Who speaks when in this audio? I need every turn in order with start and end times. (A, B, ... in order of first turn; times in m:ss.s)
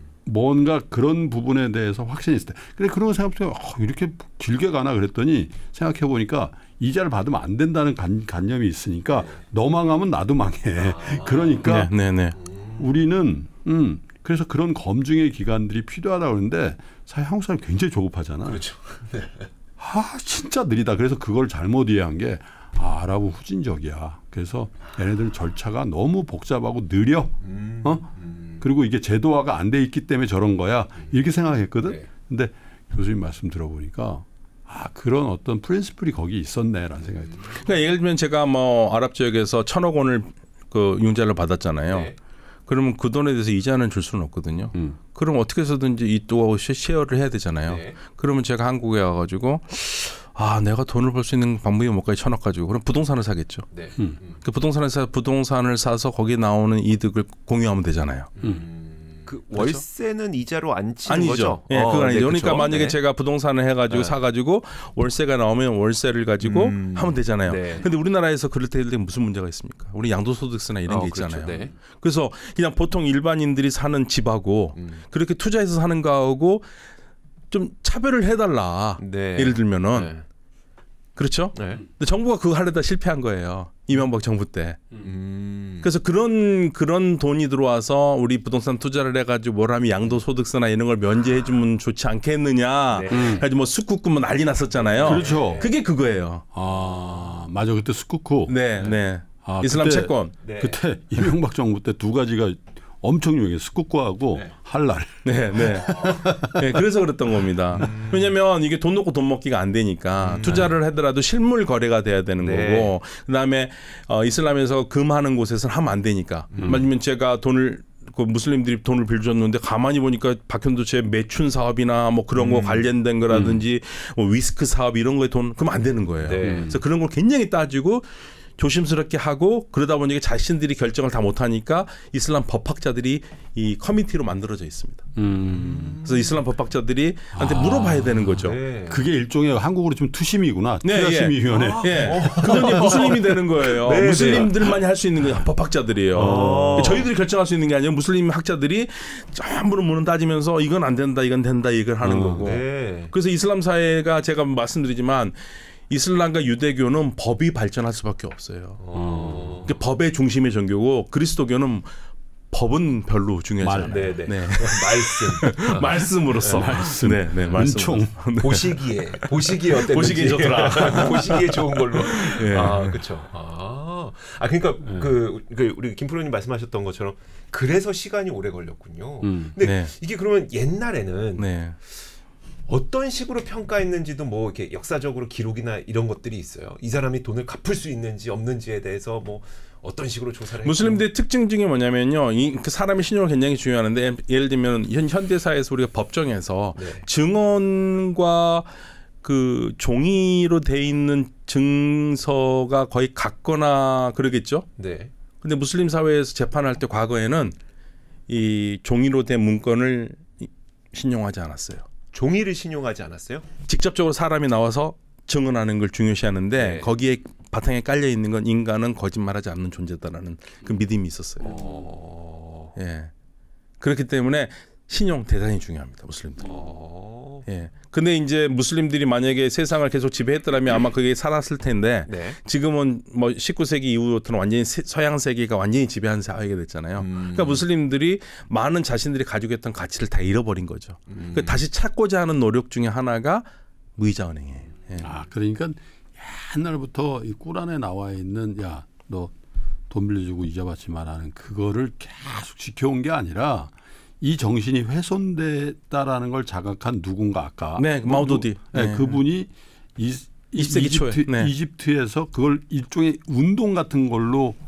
0:00.2-0:11.9 A
0:10.8-0:11.7 B
0:11.6-0:12.4 C
0:12.4-0:12.8 B
0:12.8-0:18.6 A
0:18.5-0:19.5 B
0:19.8-0:37.4 A
0:27.4-0:28.6 B
0:31.8-0:32.1 B
0:37.5-0:42.1 C
0:41.9-0:42.2 B
0:42.7-0:53.7 C
0:44.7-0:45.0 A
0:47.6-0:48.0 B
0:53.7-0:54.4 B
0:54.4-0:58.3 C
0:58.4-1:03.0 B
0:58.4-0:58.6 A
0:59.5-0:59.8 C
1:01.1-1:16.6 C
1:03.9-1:04.2 B
1:06.4-1:07.9 B
1:10.8-1:11.7 B
1:14.8-1:15.0 B
1:17.5-1:20.1 C
1:19.0-1:20.2 B
1:21.2-1:24.8 C
1:21.5-1:21.8 B
1:25.0-1:25.9 B
1:25.8-1:36.4 C
1:32.9-1:33.4 B
1:33.1-1:33.4 A
1:34.8-1:35.8 B
1:35.0-1:35.7 A
1:36.5-1:38.5 A
1:36.8-1:37.1 B
1:38.5-1:40.3 C
1:39.4-1:46.8 A
1:40.4-1:40.8 B
1:45.2-2:15.1 C
1:47.8-1:48.3 B
1:50.2-1:50.7 B
1:52.4-1:52.9 B
1:56.5-1:56.8 B
1:56.6-1:56.9 A
2:02.4-2:02.9 B
2:03.3-2:03.6 A
2:06.2-2:06.7 B
2:06.4-2:06.8 A
2:15.1-2:16.0 A
2:15.4-2:16.4 B
2:16.0-2:18.6 C
2:17.3-2:23.3 A
2:18.3-2:19.0 B
2:20.8-2:35.3 C
2:21.5-2:24.8 B
2:24.0-2:24.4 A
2:26.1-2:27.1 A
2:26.2-2:27.1 B
2:32.0-2:32.5 A
2:32.4-2:33.1 B
2:35.9-2:38.8 C
2:38.8-2:39.7 B
2:38.9-2:39.6 A
2:39.6-2:41.9 C
2:42.5-2:53.0 C
2:43.6-2:44.2 A
2:43.9-2:46.7 B
2:46.4-2:48.2 A
2:48.4-3:01.5 B
2:54.8-2:55.1 A
2:59.2-2:59.5 A
2:59.6-2:59.9 C
3:01.4-3:01.8 C
3:02.7-3:11.0 B
3:10.6-3:18.7 C
3:16.8-3:17.0 B
3:19.2-3:24.7 C
3:24.8-3:25.1 B
3:25.4-3:27.6 C
3:28.3-3:31.8 C
3:32.1-3:33.4 B
3:33.7-3:41.5 C
3:36.6-3:36.9 B
3:41.4-3:42.8 B
3:41.4-3:41.9 A
3:42.8-3:43.1 C
3:43.8-3:46.5 C
3:46.4-3:47.4 B
3:47.4-4:05.1 C
3:52.1-3:52.4 B
3:57.0-3:57.6 B
4:01.1-4:01.6 B
4:05.0-4:09.3 A
4:09.9-4:24.6 A
4:17.8-4:19.2 C
4:20.5-4:21.5 C